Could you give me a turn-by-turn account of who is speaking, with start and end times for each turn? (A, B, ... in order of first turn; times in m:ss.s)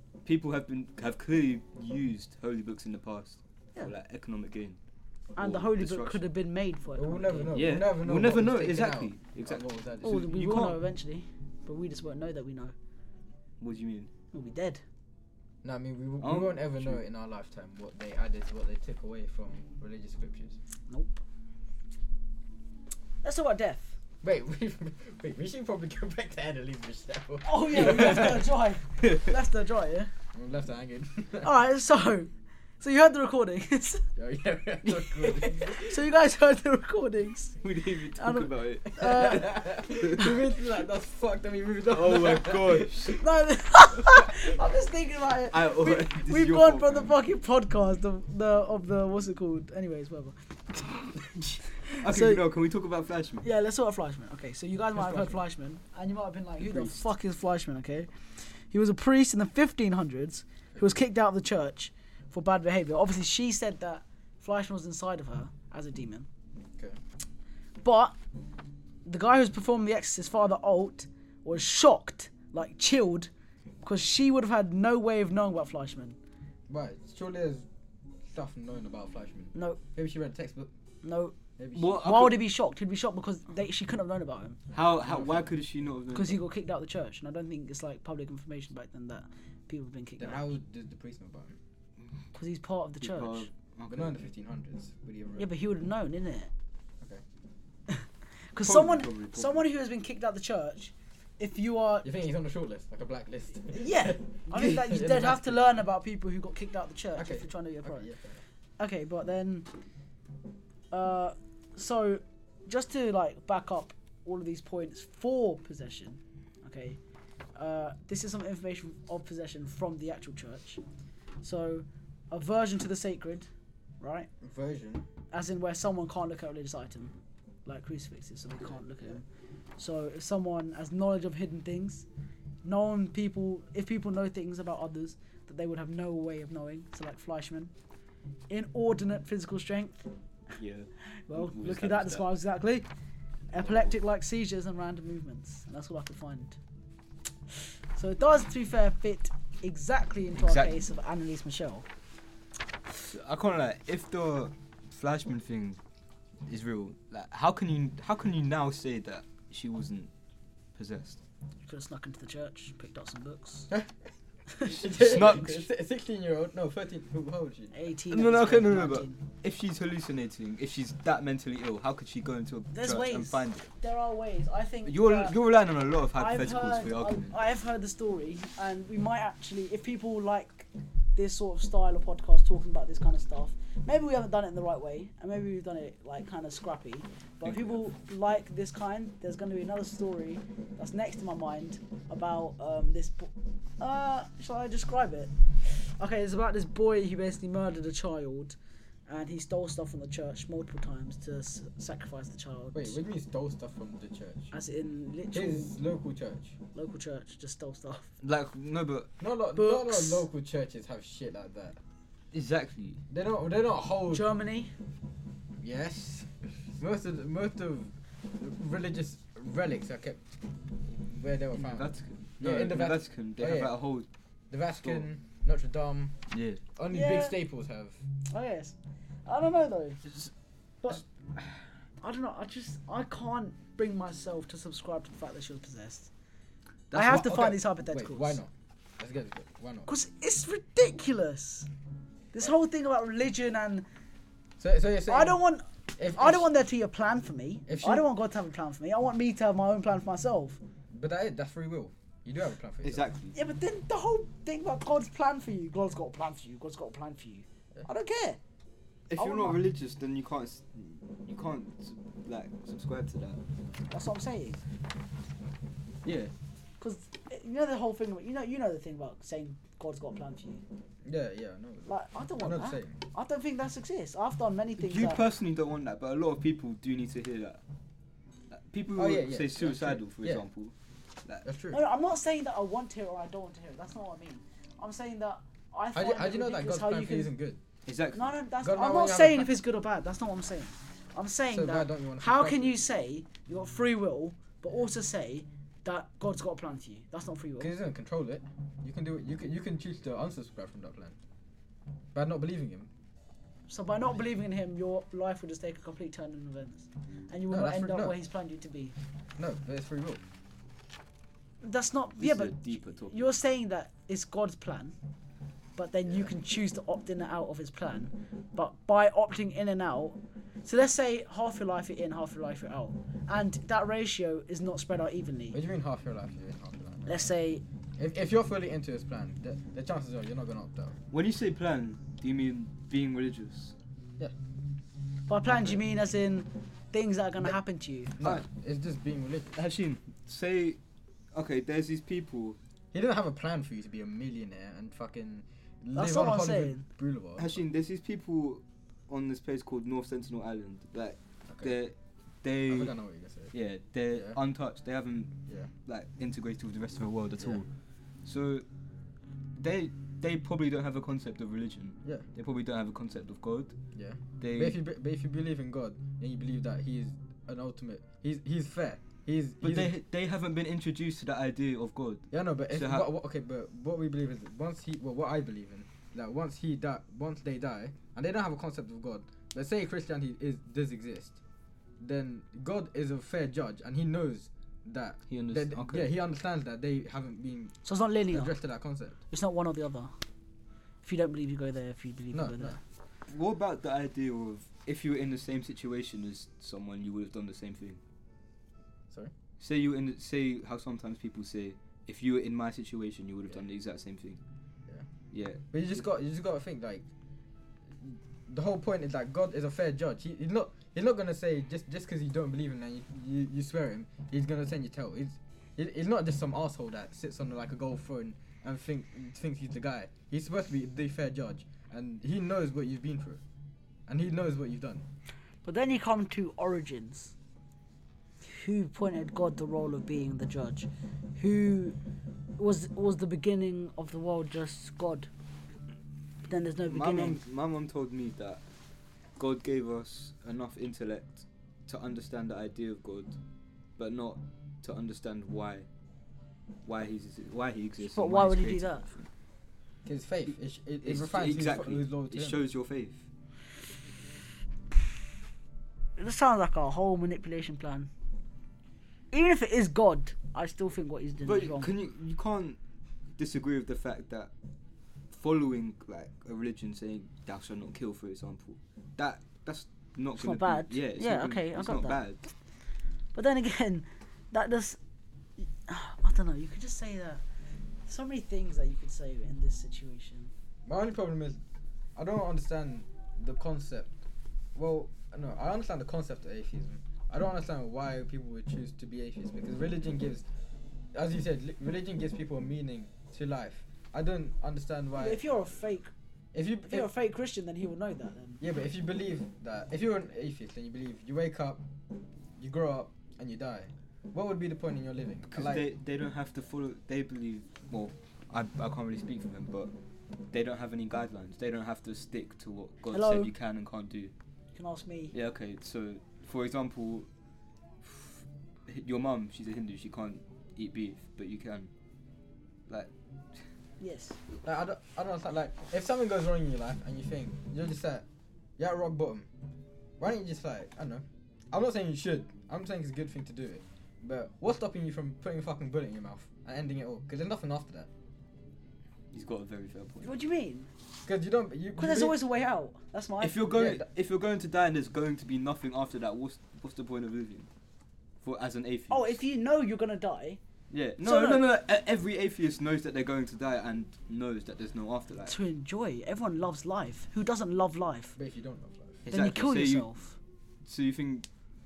0:00.2-0:04.8 A
0:05.4-0:07.6 B
0:05.4-0:06.2 A
0:06.9-0:10.3 C
0:07.5-0:10.8 A
0:10.0-0:12.7 B
0:13.6-0:14.1 A
0:14.3-0:14.8 B
0:15.6-0:20.6 C
0:16.2-0:17.0 A
0:20.9-0:21.2 B
0:23.2-0:24.0 B
0:24.2-0:28.4 C
0:27.4-0:30.1 B
0:30.3-0:31.5 C
0:31.4-0:34.0 B
0:34.2-0:35.9 C
0:35.4-0:37.6 B
0:37.6-0:39.4 A
0:38.1-0:39.6 B
0:39.0-0:42.9 C
0:41.9-0:43.2 A
0:43.1-0:51.2 B
0:45.5-0:47.1 A
0:51.7-0:52.4 B
0:52.0-0:53.5 A
0:53.4-0:58.1 B
0:55.0-0:55.4 C
0:56.6-0:57.0 A
0:58.7-1:06.3 B
1:07.8-1:08.2 B
1:09.0-1:13.3 B
1:13.8-1:16.2 B
1:16.7-1:17.6 C
1:18.3-1:20.7 C
1:19.5-1:19.8 B
1:21.0-1:21.3 B
1:21.6-1:22.0 C
1:21.7-1:22.4 A
1:21.9-1:24.6 B
1:24.7-1:25.5 C
1:24.7-1:26.4 A
1:26.1-1:30.5 B
1:30.2-1:31.6 C
1:32.3-1:33.5 B
1:33.0-1:34.2 A
1:33.9-1:35.5 C
1:35.4-1:36.5 B
1:37.9-1:42.1 B
1:38.6-1:39.6 A
1:42.0-1:45.6 C
1:43.7-1:48.1 B
1:47.2-1:48.4 C
1:48.8-1:49.7 B
1:50.9-1:57.0 B
1:57.6-2:00.8 B
2:01.4-2:03.5 B
2:04.0-2:04.3 B
2:04.4-2:05.1 C
2:05.3-2:07.1 B
2:07.6-2:09.2 B
2:08.6-2:09.1 C
2:09.8-2:12.0 B
2:12.6-2:17.7 B
2:18.5-2:20.1 B
2:20.6-2:22.3 A
2:21.3-2:22.9 B
2:23.5-2:26.6 B
2:23.6-2:23.9 A
2:27.9-2:31.8 B
2:30.4-2:30.8 A
2:33.0-2:35.8 A
2:36.5-2:40.1 A
2:40.7-2:41.2 A
2:41.6-2:43.7 B
2:44.6-2:47.7 C
2:44.8-2:45.7 A
2:47.7-2:49.2 B
2:48.1-2:53.7 A
2:52.7-2:55.4 B
2:54.8-2:57.3 A
2:56.1-3:18.6 B
3:19.1-3:23.0 B
3:22.7-3:24.5 C
3:24.5-3:25.7 B
3:25.3-3:26.6 C
3:26.7-3:28.1 B
3:28.2-3:29.1 A
3:29.2-3:31.8 C
3:29.6-3:30.2 B
3:32.3-3:33.0 A
3:33.1-3:34.2 C
3:34.1-3:34.7 B
3:35.6-3:40.4 C
3:40.9-3:43.8 C
3:41.5-3:44.1 A
3:44.5-3:46.2 C
3:44.8-3:45.0 A
3:46.3-3:46.6 A
3:46.8-3:48.0 C
3:46.9-3:47.4 B
3:48.3-3:50.0 B
3:52.0-3:56.1 B
3:56.9-3:59.9 C
3:56.9-3:58.4 B
3:59.9-4:01.7 B
4:02.3-4:03.9 B
4:04.6-4:05.4 C
4:05.1-4:10.6 B
4:06.0-4:06.5 C
4:07.7-4:08.1 C
4:10.9-4:13.1 C
4:12.8-4:13.3 A
4:13.3-4:18.4 B
4:19.1-4:23.4 A
4:19.2-4:19.6 B
4:23.9-4:24.6 B
4:26.0-4:26.3 C
4:26.8-4:30.6 B
4:31.0-4:33.0 C
4:31.9-4:35.2 B
4:34.8-4:37.6 A
4:38.5-4:40.7 A
4:38.9-4:40.4 C
4:41.4-4:41.8 C
4:41.7-4:47.3 B
4:45.9-4:47.6 C
4:47.8-4:48.3 A
4:48.1-4:57.7 B
4:48.6-4:49.5 C
4:51.5-4:52.8 C
4:57.6-5:01.2 C
5:02.1-5:02.9 C
5:03.7-5:08.9 B
5:07.5-5:08.2 C
5:09.4-5:10.2 C
5:11.6-5:14.9 B
5:12.2-5:13.3 A
5:15.8-5:25.6 B
5:16.0-5:16.3 C
5:25.5-5:27.3 C
5:27.0-5:27.6 B
5:28.0-5:31.0 C
5:31.1-5:33.7 A
5:35.3-5:38.1 B
5:38.2-5:39.6 C
5:38.2-5:38.4 A
5:39.6-5:40.8 A
5:41.3-5:42.6 A
5:42.9-5:47.6 C
5:45.9-5:46.8 B
5:47.4-5:52.9 A
5:51.5-5:51.8 C
5:52.7-5:53.5 C
5:53.5-5:55.3 A
5:54.1-5:54.4 C
5:55.8-5:57.7 A
5:58.2-5:58.6 A
5:59.6-6:03.7 A
6:03.9-6:09.9 C
6:04.4-6:04.8 A
6:09.6-6:13.1 A
6:12.3-6:21.4 C
6:22.0-6:27.7 C
6:25.3-6:26.1 A
6:27.8-6:28.5 B
6:28.3-6:29.2 C
6:29.3-6:30.1 B
6:31.0-6:32.8 B
6:32.3-6:32.8 C
6:33.3-6:38.0 A
6:39.6-6:44.4 A
6:45.3-6:45.6 A
6:45.7-6:47.0 C
6:48.0-7:03.4 C
7:04.1-7:05.0 C
7:05.6-7:07.3 B
7:08.4-7:12.0 B
7:12.6-7:15.3 B
7:16.5-7:17.4 B
7:16.9-7:18.6 A
7:19.4-7:23.4 A
7:24.0-7:25.9 A
7:26.8-7:29.3 A
7:28.1-7:29.0 B
7:30.0-7:32.6 C
7:31.0-7:33.2 A
7:36.2-7:38.1 B
7:39.3-7:41.9 B
7:41.4-7:42.8 A
7:43.4-7:44.5 A
7:45.3-7:52.4 A
7:50.4-7:52.2 B
7:53.3-7:55.0 B
7:55.6-7:57.4 B
7:58.0-8:00.5 B
8:00.8-8:01.6 C
8:02.2-8:04.1 C
8:04.7-8:10.4 C
8:11.1-8:15.4 C
8:15.2-8:16.1 B
8:16.5-8:17.1 C
8:16.9-8:18.6 B
8:18.6-8:21.8 C
8:22.6-8:25.9 C
8:25.5-8:29.9 A
8:30.5-8:34.3 A
8:33.1-8:33.5 B
8:34.7-8:35.3 B
8:35.3-8:37.3 A
8:38.0-8:41.9 A
8:42.9-8:43.6 A
8:44.0-8:44.4 B
8:44.6-8:48.2 C
8:48.8-8:49.5 C
8:50.2-8:58.1 C
8:59.3-9:00.4 A
9:00.2-9:00.9 B
9:01.2-9:02.4 C
9:02.0-9:03.6 B
9:03.4-9:07.7 A
9:03.7-9:04.0 C
9:08.4-9:09.4 A
9:09.1-9:10.6 B
9:10.9-9:15.5 A
9:11.2-9:11.6 B
9:15.5-9:18.3 B
9:18.4-9:19.2 C
9:19.2-9:20.1 A
9:19.3-9:20.4 B
9:20.8-9:21.5 A